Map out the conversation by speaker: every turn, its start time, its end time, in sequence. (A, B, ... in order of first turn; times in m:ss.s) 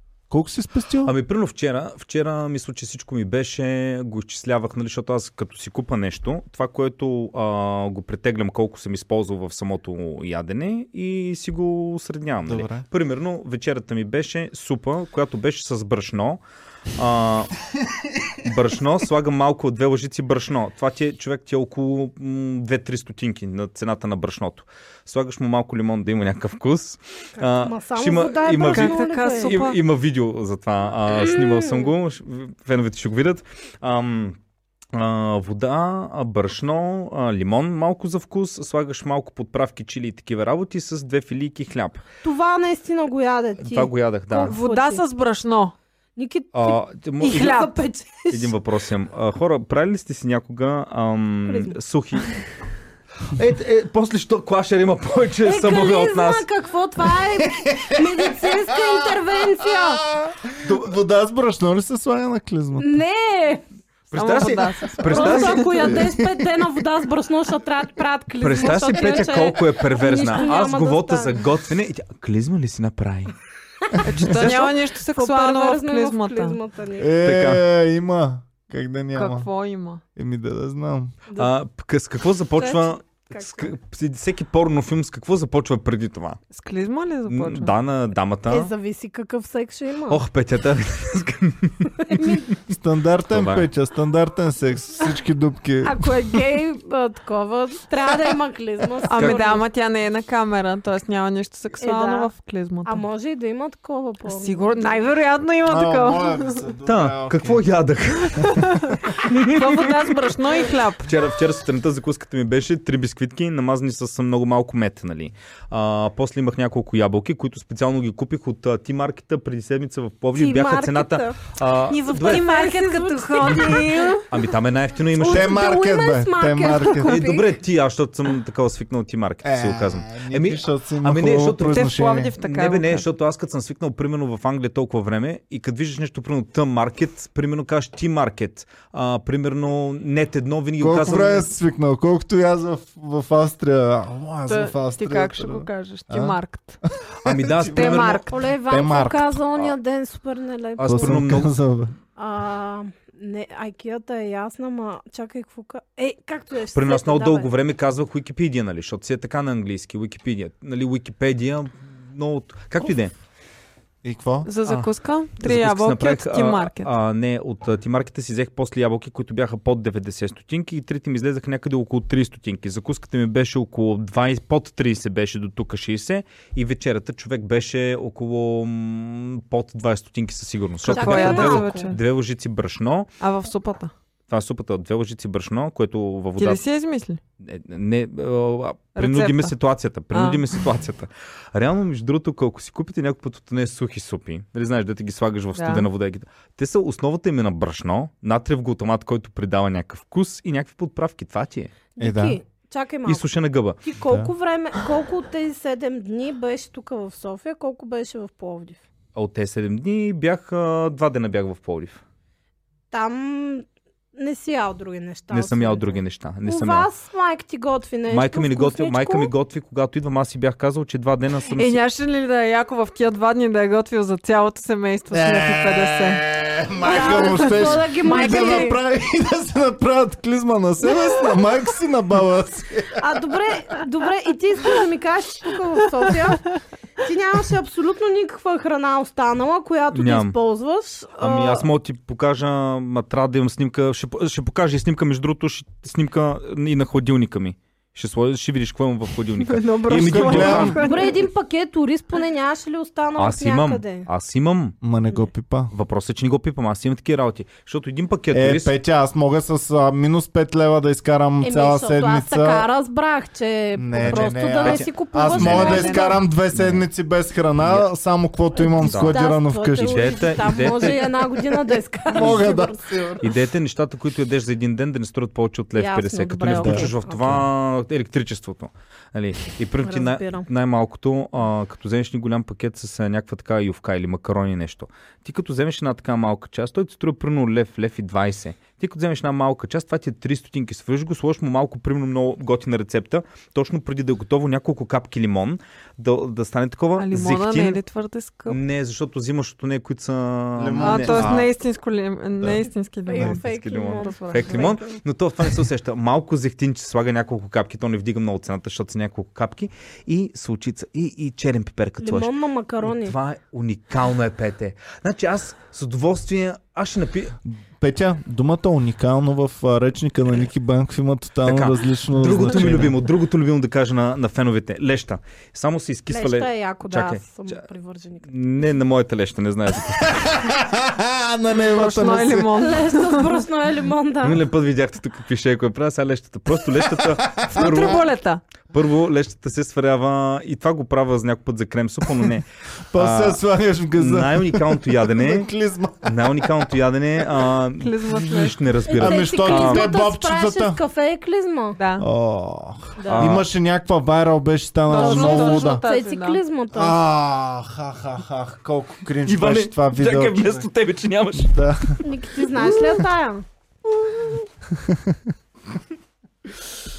0:00.3-0:01.1 A
0:01.0-0:16.4 B
0:12.4-0:12.8 A
0:16.9-0:17.5 B
0:18.4-0:34.4 B
0:27.4-0:29.6 C
0:28.6-0:29.8 D
0:31.2-0:31.9 C
0:34.9-0:42.0 B
0:42.2-0:45.0 C
0:43.6-0:44.6 B
0:44.4-0:45.7 D
0:46.2-0:48.5 C
0:46.5-0:47.7 B
0:47.4-0:47.7 D
0:48.3-0:52.4 B
0:51.4-0:51.7 C
0:53.3-0:56.4 B
0:55.4-1:00.0 C
0:57.4-1:03.0 A
1:00.6-1:00.9 B
1:02.8-1:03.7 C
1:04.1-1:05.8 B
1:04.1-1:05.9 D
1:05.0-1:11.4 C
1:05.9-1:06.5 A
1:08.4-1:13.3 B
1:13.9-1:17.1 C
1:14.0-1:16.6 D
1:17.0-1:19.5 A
1:17.2-1:17.6 B
1:19.1-1:20.0 D
1:20.2-1:21.1 A
1:21.4-1:26.4 B
1:22.6-1:23.7 C
1:26.5-1:27.8 D
1:27.3-1:28.7 B
1:28.5-1:30.2 C
1:30.1-1:32.5 B
1:32.0-1:32.4 C
1:32.6-1:36.4 A
1:33.3-1:33.7 B
1:35.8-1:39.6 C
1:39.1-1:43.0 D
1:39.2-1:39.4 B
1:41.8-1:42.3 C
1:42.8-1:45.0 C
1:44.3-1:46.6 D
1:45.6-1:47.6 A
1:46.8-2:02.5 B
1:48.4-1:51.1 D
2:00.3-2:01.4 C
2:01.9-2:04.3 D
2:02.1-2:04.2 C
2:04.3-2:05.6 B
2:05.1-2:07.5 C
2:05.2-2:07.2 A
2:07.0-2:21.5 B
2:09.4-2:12.3 A
2:11.6-2:13.1 D
2:20.8-2:26.4 A
2:24.5-2:26.8 D
2:26.9-2:29.4 A
2:27.2-2:28.3 B
2:27.7-2:28.4 D
2:28.2-2:31.4 C
2:30.8-2:31.5 B
2:30.8-2:31.9 A
2:32.2-2:37.5 C
2:36.7-2:43.1 B
2:44.0-2:44.5 A
2:44.4-2:46.9 D
2:45.4-3:03.1 B
3:00.8-3:01.9 C
3:00.8-3:02.0 D
3:03.2-3:03.9 D
3:04.3-3:06.6 B
3:06.4-3:07.2 D
3:07.4-3:21.7 B
3:09.0-3:09.5 D
3:10.1-3:10.6 D
3:15.5-3:15.9 D
3:22.0-3:23.3 C
3:22.0-3:22.4 A
3:23.0-3:23.8 B
3:23.8-3:28.8 C
3:29.1-3:32.0 B
3:32.9-3:39.3 C
3:35.3-3:36.9 B
3:38.1-3:41.8 B
3:41.5-3:46.3 D
3:45.1-3:53.2 A
3:46.8-3:48.8 D
3:46.8-3:48.8 C
3:53.0-3:56.4 C
3:57.0-4:01.7 C
3:59.9-4:00.3 B
4:01.2-4:10.9 B
4:09.4-4:11.3 D
4:09.9-4:10.8 A
4:10.8-4:14.1 C
4:13.2-4:14.8 B
4:14.8-4:15.7 A
4:15.7-4:18.7 B
4:18.3-4:22.7 A
4:21.4-4:26.2 C
4:23.8-4:30.2 A
4:24.0-4:26.8 B
4:25.7-4:26.0 D
4:27.6-4:27.9 B
4:28.5-4:32.8 C
4:28.8-4:29.2 B
4:29.7-4:31.2 B
4:32.1-4:33.3 A
4:33.2-4:57.8 B
4:35.8-4:37.4 C
4:36.5-4:36.9 A
4:39.8-4:40.5 C
4:57.0-4:58.6 D
4:58.5-5:01.5 B
5:00.6-5:01.5 A
5:00.8-5:04.8 D
5:03.0-5:05.0 C
5:03.2-5:17.4 B
5:12.0-5:13.2 C
5:17.4-5:23.0 A
5:21.4-5:27.6 B
5:26.1-5:28.8 C
5:28.2-5:30.4 B
5:30.0-5:32.6 A
5:31.6-5:33.4 D
5:32.5-5:34.4 C
5:34.2-5:38.1 B
5:37.0-5:37.8 A
5:37.5-5:38.4 D
5:38.7-5:43.4 B
5:42.9-5:46.7 A
5:44.0-5:45.5 B
5:46.0-5:49.9 B
5:47.8-5:48.6 D
5:48.9-5:51.8 C
5:49.0-5:50.8 A
5:51.8-5:52.1 D
5:52.0-5:55.8 A
5:53.0-5:53.3 C
5:53.1-5:53.4 B
5:54.9-5:56.4 D
5:54.9-5:57.0 C
5:56.7-6:00.6 A
5:59.2-6:01.7 B
6:01.3-6:02.0 A
6:02.0-6:03.4 C
6:04.7-6:05.3 A